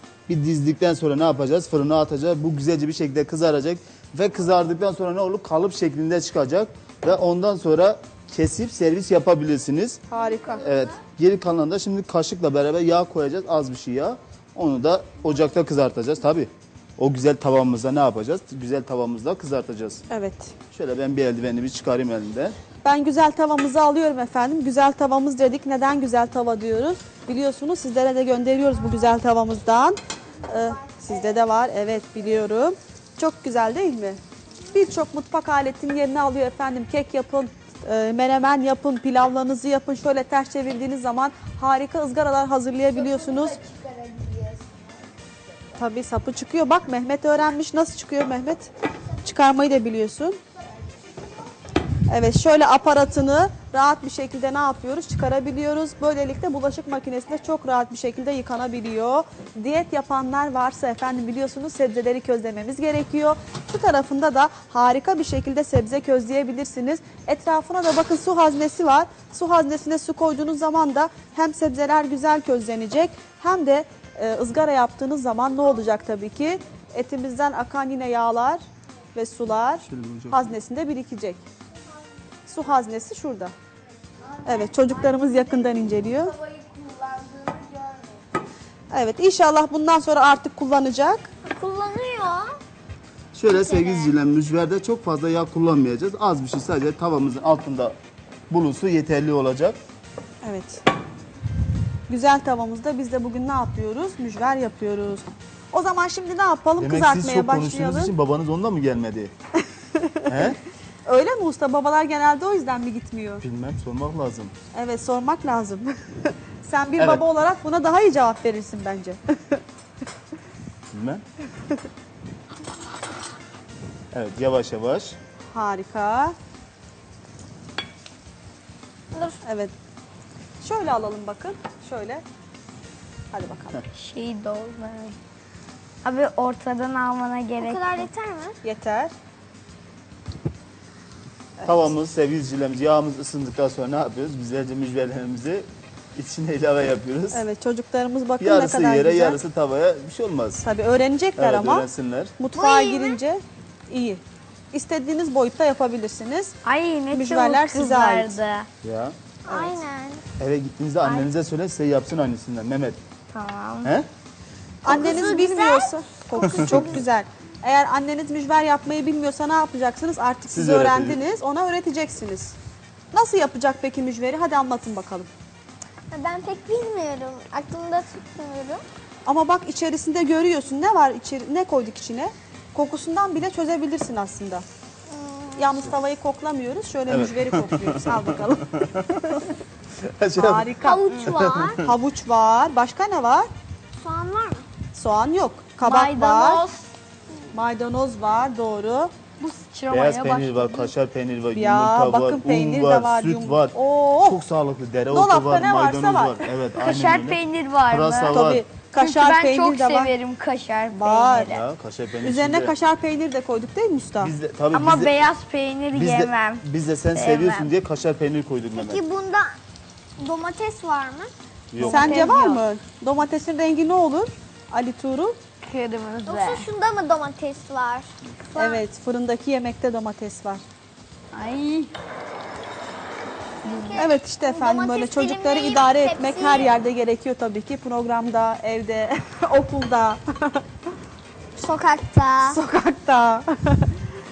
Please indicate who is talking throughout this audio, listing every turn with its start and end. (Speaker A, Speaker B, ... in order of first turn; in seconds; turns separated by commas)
Speaker A: 0.3-10.0, Speaker B: 10.1-10.7, Speaker C: 10.3-10.9, Speaker A: 10.6-20.0, Speaker B: 20.1-20.5, Speaker A: 20.7-22.6, Speaker B: 22.8-43.6, Speaker C: 42.9-45.1, Speaker B: 45.8-48.7, Speaker B: 49.2-50.4, Speaker C: 50.6-51.4, Speaker B: 52.1-81.4, Speaker A: 79.9-80.5, Speaker B: 82.5-83.5, Speaker C: 84.4-86.0, Speaker B: 84.5-86.3, Speaker D: 86.1-88.1, Speaker B: 88.9-91.3, Speaker C: 91.5-92.6, Speaker A: 93.3-98.0, Speaker C: 93.5-94.1, Speaker A: 98.5-99.8, Speaker B: 100.4-100.8, Speaker B: 102.1-108.1, Speaker A: 106.8-109.3, Speaker A: 110.3-110.6, Speaker B: 111.1-113.4, Speaker A: 113.4-114.5, Speaker B: 114.7-119.6, Speaker A: 117.0-117.2, Speaker A: 120.9-121.2, Speaker A: 124.1-125.2, Speaker B: 125.5-126.4, Speaker C: 129.1-129.4, Speaker B: 129.4-129.7, Speaker B: 130.6-132.2, Speaker B: 133.3-133.8, Speaker D: 133.9-135.2, Speaker D: 136.0-138.1, Speaker C: 137.6-138.6, Speaker B: 138.6-139.1, Speaker A: 141.6-147.4, Speaker B: 147.3-149.4, Speaker A: 148.4-150.6, Speaker B: 150.6-156.5, Speaker A: 151.4-152.3, Speaker C: 152.6-153.2, Speaker D: 156.6-158.7, Speaker B: 157.1-158.4, Speaker A: 158.8-159.2, Speaker C: 159.5-160.2, Speaker B: 159.5-159.8, Speaker A: 160.4-163.0, Speaker D: 161.0-161.3, Speaker D: 163.3-163.9, Speaker A: 163.8-164.1, Speaker B: 164.8-172.6, Speaker C: 164.9-166.9, Speaker A: 166.4-166.8, Speaker A: 170.5-171.2, Speaker B: 173.1-175.3, Speaker C: 176.1-178.8, Speaker B: 179.2-184.7, Speaker C: 185.1-185.9, Speaker B: 185.6-189.5, Speaker A: 187.1-191.9, Speaker B: 190.4-191.0, Speaker C: 190.8-191.8, Speaker D: 191.1-191.4, Speaker B: 191.8-193.5, Speaker C: 194.0-194.7, Speaker B: 194.9-196.6, Speaker D: 195.8-196.8, Speaker B: 197.5-199.1, Speaker D: 199.4-200.9, Speaker A: 199.9-208.6, Speaker B: 201.5-204.4, Speaker B: 205.1-206.4, Speaker D: 206.8-208.4, Speaker B: 208.3-210.1, Speaker D: 209.0-211.6, Speaker B: 210.9-211.5, Speaker A: 211.5-212.7, Speaker B: 212.2-214.3, Speaker A: 214.2-215.1, Speaker D: 214.7-217.7, Speaker A: 215.9-219.0, Speaker C: 218.7-219.6, Speaker C: 220.2-221.3, Speaker A: 221.7-222.2, Speaker D: 221.8-222.6, Speaker B: 221.8-225.4, Speaker D: 225.6-226.7, Speaker C: 226.3-228.8, Speaker B: 228.6-230.6, Speaker D: 231.3-231.9, Speaker C: 233.6-236.7, Speaker D: 233.7-234.1, Speaker B: 234.0-240.7, Speaker C: 241.6-242.6, Speaker B: 242.5-244.0